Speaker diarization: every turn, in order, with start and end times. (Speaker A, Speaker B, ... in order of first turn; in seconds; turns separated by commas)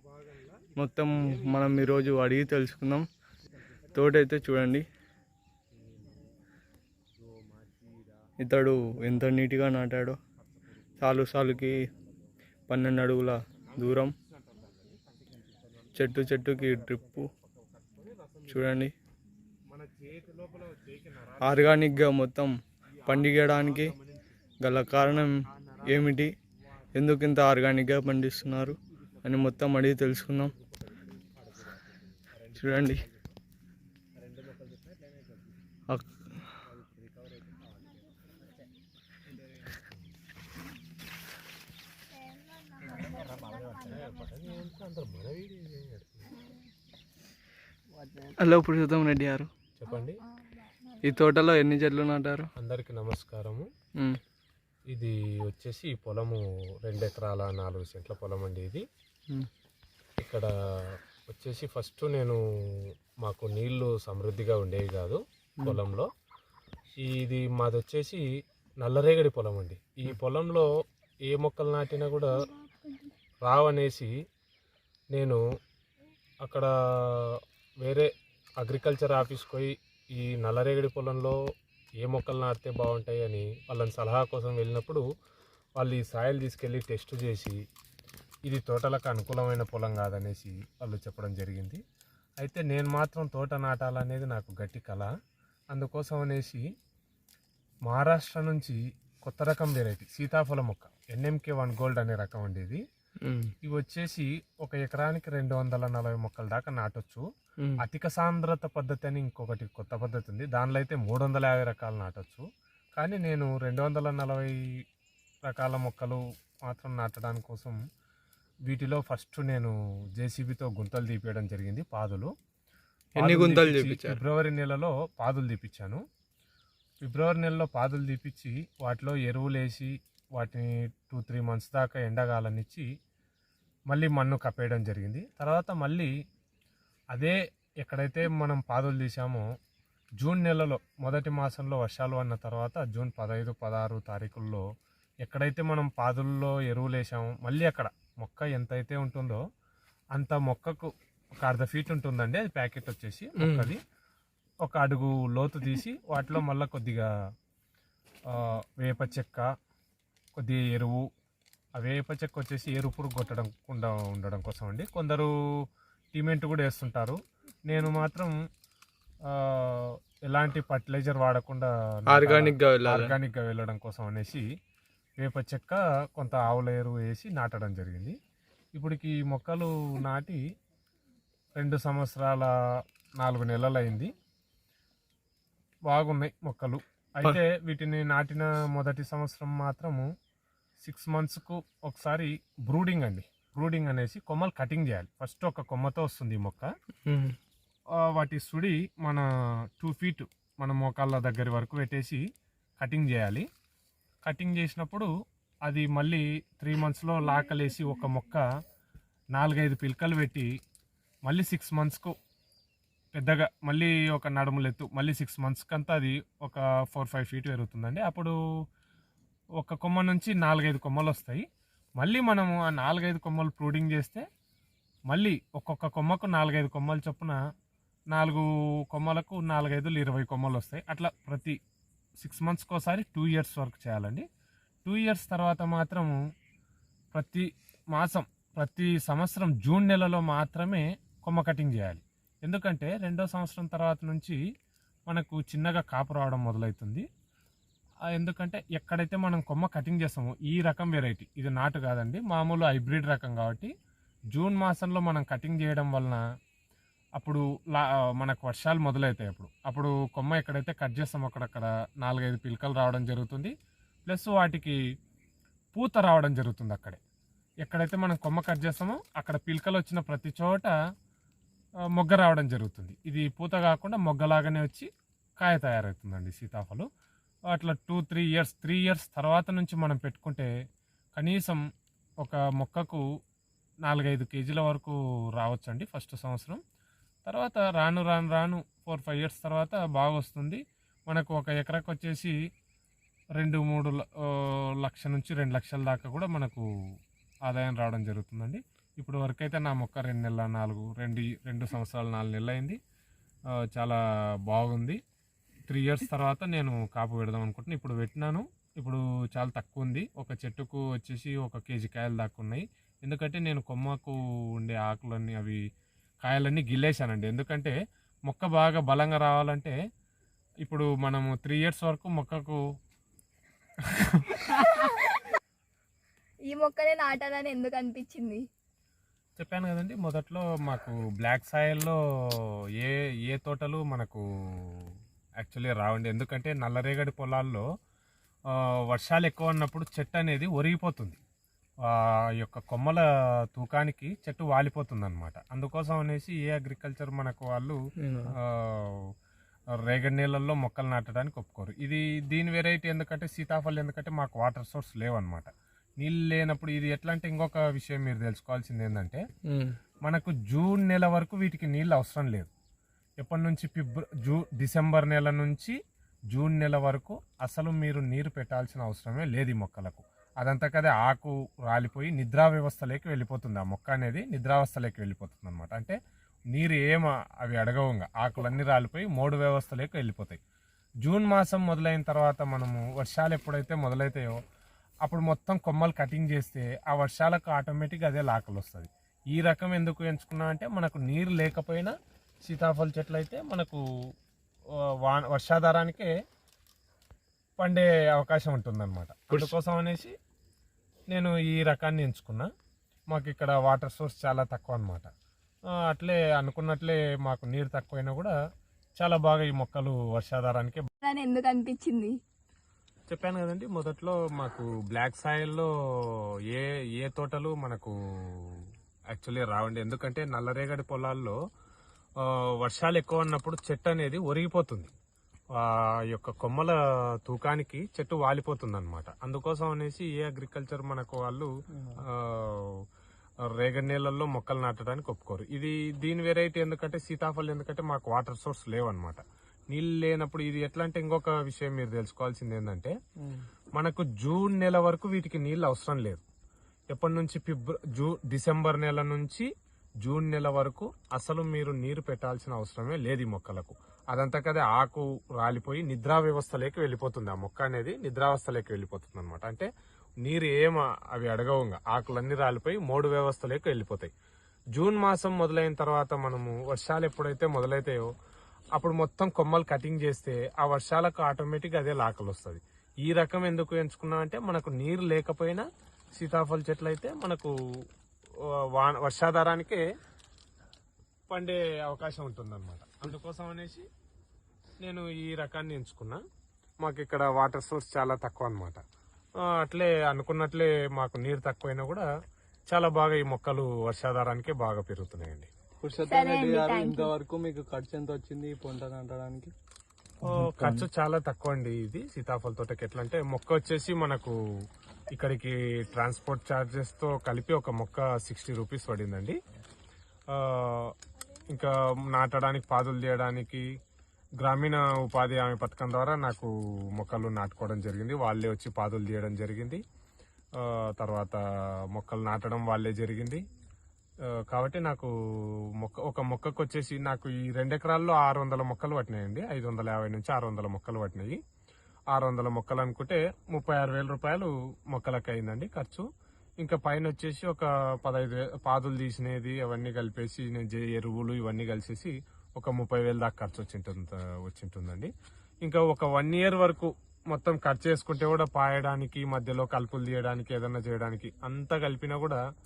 Speaker A: 0.2-0.5, Speaker B: 0.8-3.0, Speaker B: 3.9-4.8, Speaker A: 5.7-6.1, Speaker A: 7.2-8.0, Speaker B: 8.4-10.2, Speaker B: 11.0-11.8, Speaker B: 12.7-14.1, Speaker A: 13.7-18.8, Speaker B: 15.9-17.3, Speaker B: 18.5-18.9, Speaker A: 19.7-21.9, Speaker B: 21.4-22.5, Speaker A: 23.0-24.3, Speaker B: 23.1-23.9, Speaker B: 24.6-26.3, Speaker A: 24.9-26.2, Speaker B: 26.9-30.5, Speaker A: 30.8-31.8, Speaker B: 32.5-33.0, Speaker A: 32.6-33.3, Speaker A: 34.2-35.1, Speaker A: 36.9-37.7, Speaker A: 42.9-46.4, Speaker B: 48.2-49.5, Speaker A: 49.8-50.2, Speaker C: 50.6-51.0, Speaker B: 51.0-52.5, Speaker A: 52.6-53.7, Speaker A: 54.9-58.8, Speaker A: 60.2-66.1, Speaker A: 66.9-68.2, Speaker A: 68.8-70.7, Speaker A: 71.2-72.5, Speaker C: 72.6-73.0, Speaker A: 73.4-74.1, Speaker A: 75.1-75.4, Speaker A: 76.4-81.4, Speaker A: 82.0-85.0, Speaker A: 85.8-87.6, Speaker A: 88.5-91.8, Speaker A: 92.4-95.1, Speaker A: 95.7-96.7, Speaker A: 97.8-102.8, Speaker B: 103.2-103.5, Speaker A: 103.6-107.2, Speaker A: 107.8-112.4, Speaker A: 113.0-114.5, Speaker A: 115.5-117.8, Speaker A: 118.7-122.3, Speaker A: 123.2-126.0, Speaker B: 123.2-124.2, Speaker A: 127.0-132.8, Speaker A: 133.9-136.1, Speaker A: 137.1-139.4, Speaker A: 140.2-144.6, Speaker A: 145.2-149.4, Speaker A: 150.1-150.9, Speaker A: 151.4-153.8, Speaker B: 153.4-153.7, Speaker A: 154.6-157.1, Speaker A: 158.3-159.5, Speaker A: 160.3-161.0, Speaker A: 161.8-165.3, Speaker A: 166.1-168.3, Speaker A: 169.3-174.4, Speaker B: 172.1-173.1, Speaker A: 175.2-178.2, Speaker A: 178.7-180.4, Speaker A: 181.6-182.5, Speaker A: 183.2-184.1, Speaker A: 185.9-190.1, Speaker A: 190.8-196.7, Speaker B: 197.1-197.3, Speaker A: 198.1-199.2, Speaker A: 199.8-202.2, Speaker A: 202.8-203.4, Speaker A: 204.2-205.1, Speaker A: 205.6-208.4, Speaker A: 209.3-210.5, Speaker A: 211.2-212.1, Speaker A: 213.1-218.3, Speaker A: 219.6-221.4, Speaker A: 222.0-224.2, Speaker A: 225.1-227.4, Speaker A: 228.1-231.6, Speaker A: 232.2-234.2, Speaker A: 234.8-236.2, Speaker A: 237.1-244.4, Speaker A: 245.1-247.0, Speaker A: 248.1-253.7, Speaker A: 254.3-256.2, Speaker A: 257.2-263.5, Speaker A: 264.1-264.8, Speaker A: 265.7-267.0, Speaker A: 267.6-270.7, Speaker A: 271.9-274.9, Speaker A: 275.4-276.9, Speaker A: 277.5-280.5, Speaker A: 281.1-281.6, Speaker A: 282.2-283.0, Speaker A: 283.8-286.6, Speaker A: 287.2-292.3, Speaker A: 293.4-296.6, Speaker A: 297.4-302.8, Speaker A: 303.7-305.0, Speaker A: 305.7-315.6, Speaker A: 316.2-317.8, Speaker A: 318.3-319.7, Speaker A: 320.6-322.6, Speaker A: 323.8-324.8, Speaker C: 326.5-328.4, Speaker A: 329.4-337.6, Speaker A: 338.5-341.2, Speaker A: 341.9-347.8, Speaker B: 348.0-348.3, Speaker A: 348.4-349.0, Speaker A: 349.8-359.2, Speaker B: 359.5-359.7, Speaker A: 360.0-362.5, Speaker A: 363.2-365.8, Speaker A: 366.3-375.9, Speaker A: 376.5-380.4, Speaker A: 381.0-384.4, Speaker A: 385.0-391.9, Speaker A: 392.4-393.8, Speaker A: 395.0-396.1, Speaker A: 397.6-400.1, Speaker A: 401.1-402.5, Speaker A: 403.1-405.1, Speaker A: 405.8-408.3, Speaker A: 409.0-410.9, Speaker C: 411.0-412.1, Speaker A: 413.1-421.4, Speaker A: 422.2-424.9, Speaker A: 425.5-431.5, Speaker B: 431.7-432.0, Speaker A: 432.1-432.8, Speaker A: 433.5-442.9, Speaker A: 443.8-446.2, Speaker A: 446.9-449.5, Speaker A: 450.0-459.7, Speaker A: 460.2-464.1, Speaker A: 464.7-468.1, Speaker A: 468.7-475.6, Speaker A: 476.2-477.5, Speaker A: 478.7-479.8, Speaker A: 481.3-483.8, Speaker A: 484.8-486.2, Speaker A: 486.8-488.8, Speaker A: 489.4-492.1, Speaker A: 492.7-495.5, Speaker B: 495.8-499.5, Speaker C: 496.1-497.1, Speaker A: 500.2-504.3, Speaker A: 505.1-509.3, Speaker A: 510.3-510.9, Speaker A: 511.5-513.6, Speaker A: 514.4-519.8, Speaker A: 520.6-521.4, Speaker A: 521.9-523.4, Speaker A: 524.2-531.4, Speaker A: 532.1-536.0, Speaker A: 536.6-545.1, Speaker A: 545.6-552.4